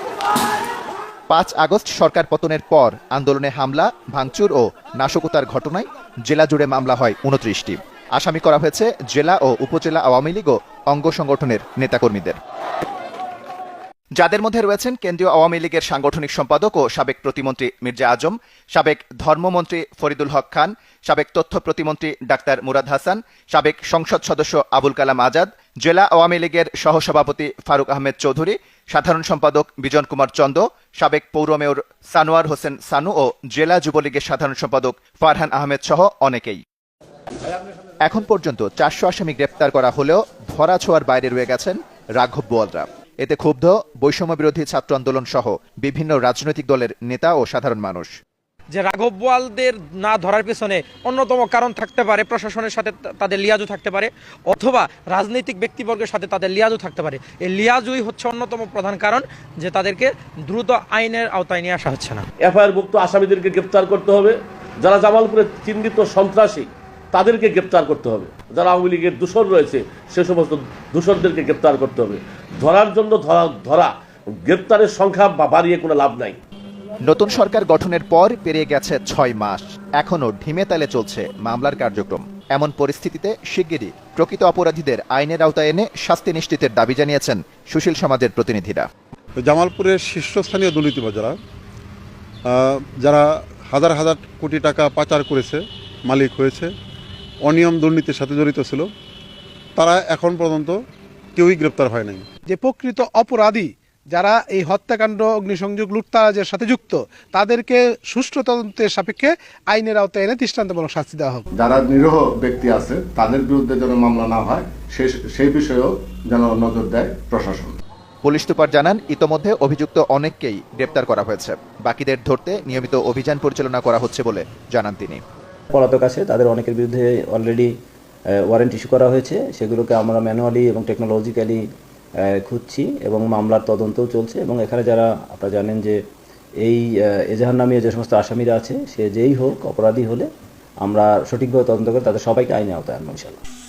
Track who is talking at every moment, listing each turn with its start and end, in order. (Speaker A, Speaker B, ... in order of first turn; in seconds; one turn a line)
Speaker A: 1.3-12.4
Speaker A: 14.2-36.6
Speaker A: 38.0-48.1
Speaker B: 48.7-62.3
Speaker C: 62.4-73.9
Speaker C: 74.4-76.4
Speaker A: 77.0-88.9
Speaker D: 89.4-91.4
Speaker D: 92.5-96.7
Speaker D: 97.4-98.9
Speaker D: 99.8-100.8
Speaker D: 101.3-102.2
Speaker E: 102.5-111.4
Speaker F: 111.5-117.8
Speaker A: 118.2-125.2
Speaker G: 125.7-127.7
Speaker G: 128.5-131.6
Speaker G: 132.3-136.0
Speaker G: 136.6-140.3
Speaker G: 140.8-143.4